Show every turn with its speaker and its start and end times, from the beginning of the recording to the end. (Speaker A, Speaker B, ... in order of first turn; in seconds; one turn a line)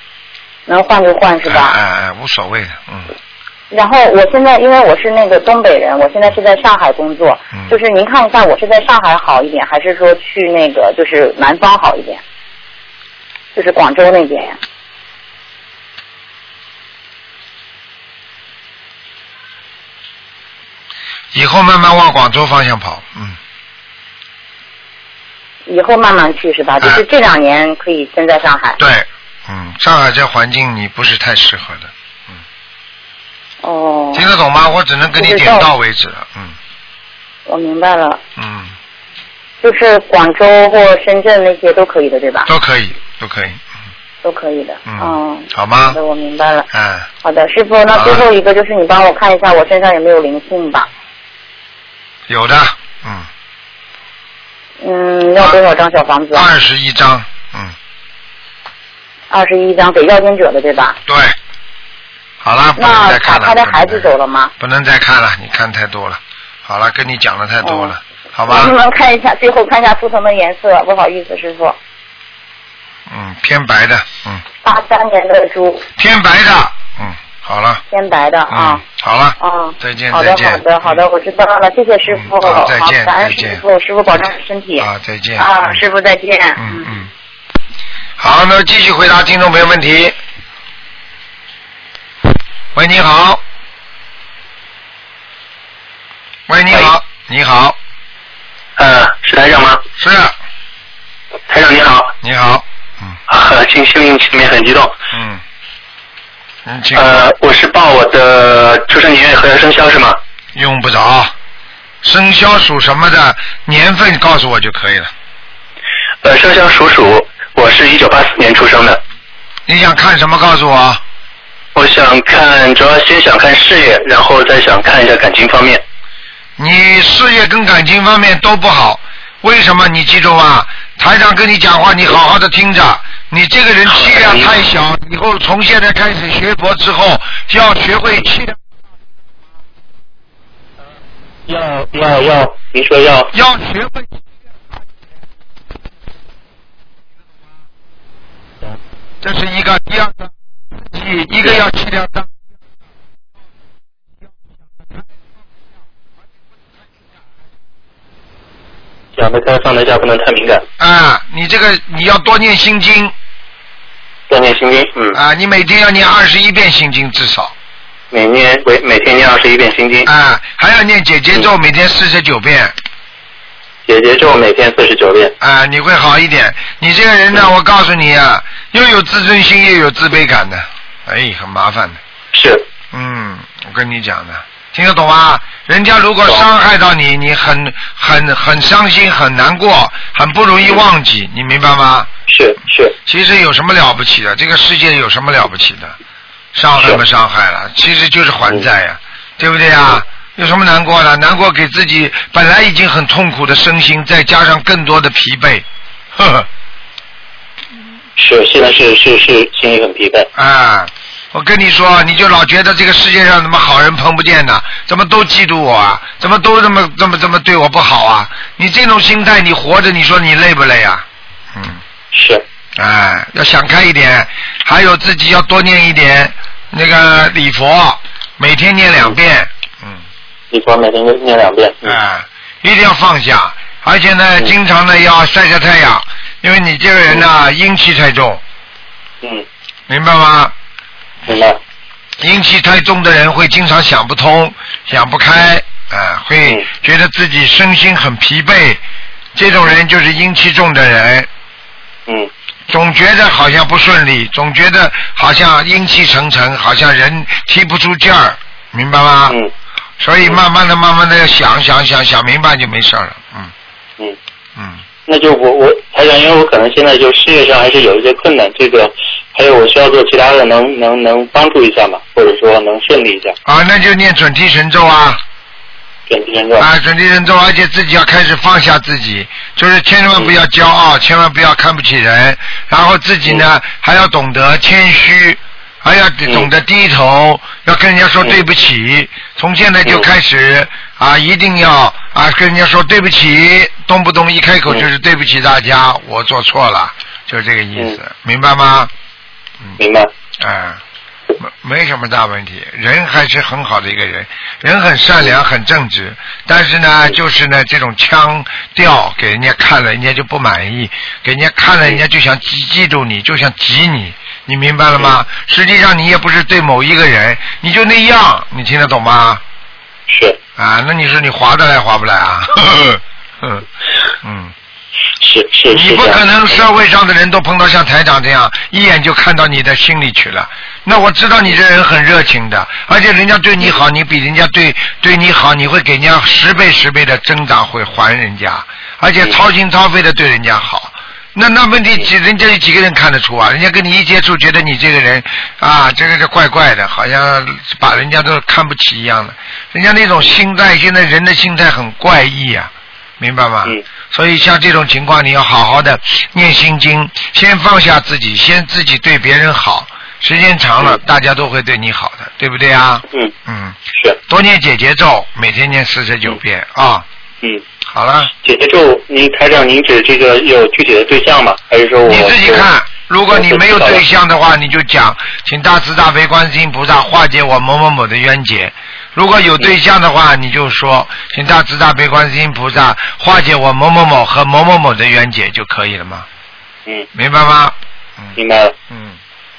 Speaker A: 0.7-1.8
Speaker B: 1.4-3.1
Speaker A: 3.7-12.2
Speaker A: 13.6-14.6
Speaker B: 21.3-23.4
Speaker A: 25.7-28.8
Speaker B: 28.8-32.4
Speaker A: 33.6-34.2
Speaker B: 34.1-36.6
Speaker A: 35.2-35.7
Speaker A: 37.5-38.2
Speaker B: 38.4-38.7
Speaker A: 39.6-42.5
Speaker B: 42.5-43.6
Speaker A: 44.2-46.7
Speaker B: 44.9-46.0
Speaker B: 46.7-47.1
Speaker A: 47.2-50.9
Speaker B: 47.9-48.3
Speaker B: 52.3-53.3
Speaker A: 54.8-56.5
Speaker B: 56.3-57.8
Speaker A: 59.3-61.0
Speaker B: 61.1-61.4
Speaker B: 62.4-68.7
Speaker A: 62.8-64.5
Speaker A: 67.6-67.9
Speaker A: 68.5-71.8
Speaker B: 73.1-74.4
Speaker A: 74.6-75.9
Speaker B: 76.0-77.8
Speaker A: 77.9-78.8
Speaker B: 78.5-80.9
Speaker A: 79.4-84.9
Speaker B: 82.1-83.6
Speaker B: 84.8-85.8
Speaker A: 85.4-86.9
Speaker B: 86.6-87.1
Speaker B: 88.2-90.2
Speaker B: 92.8-93.4
Speaker B: 96.5-97.8
Speaker C: 98.8-99.8
Speaker B: 100.0-100.3
Speaker C: 101.5-102.1
Speaker B: 102.2-103.2
Speaker C: 103.3-105.0
Speaker B: 105.1-105.4
Speaker B: 106.7-107.3
Speaker C: 107.0-110.2
Speaker B: 110.5-111.3
Speaker B: 112.0-115.1
Speaker C: 116.2-119.0
Speaker B: 119.7-121.0
Speaker C: 121.8-125.8
Speaker B: 126.6-138.6
Speaker C: 133.9-134.5
Speaker C: 141.5-143.3
Speaker B: 143.3-144.2
Speaker B: 149.2-152.3
Speaker C: 159.2-160.7
Speaker B: 160.8-163.1
Speaker C: 164.3-165.2
Speaker B: 165.1-167.5
Speaker C: 168.1-170.1
Speaker B: 170.1-172.7
Speaker C: 173.9-175.3
Speaker B: 175.4-182.0
Speaker C: 182.3-182.7
Speaker B: 182.9-192.1
Speaker C: 192.3-192.9
Speaker B: 193.1-196.0
Speaker B: 196.5-206.5
Speaker C: 208.2-210.3
Speaker B: 210.3-221.8
Speaker C: 222.1-222.4
Speaker B: 222.8-230.0
Speaker C: 230.5-232.0
Speaker B: 231.8-238.4
Speaker B: 239.9-240.5
Speaker C: 241.3-241.6
Speaker B: 242.2-248.8
Speaker B: 249.3-251.3
Speaker B: 252.7-259.4
Speaker B: 260.0-263.5
Speaker B: 264.6-264.8
Speaker C: 265.1-273.4
Speaker B: 273.5-275.2
Speaker C: 276.1-276.7
Speaker B: 276.6-298.9
Speaker C: 299.8-300.1
Speaker B: 300.4-300.8
Speaker B: 301.4-319.4
Speaker C: 320.1-320.4
Speaker B: 320.6-323.7
Speaker B: 324.2-324.5
Speaker C: 325.2-326.7
Speaker B: 325.7-367.1
Speaker B: 367.9-368.3
Speaker C: 368.4-372.7
Speaker B: 372.1-386.3
Speaker C: 373.3-374.0
Speaker B: 387.1-388.4
Speaker C: 388.4-388.7
Speaker B: 388.9-389.2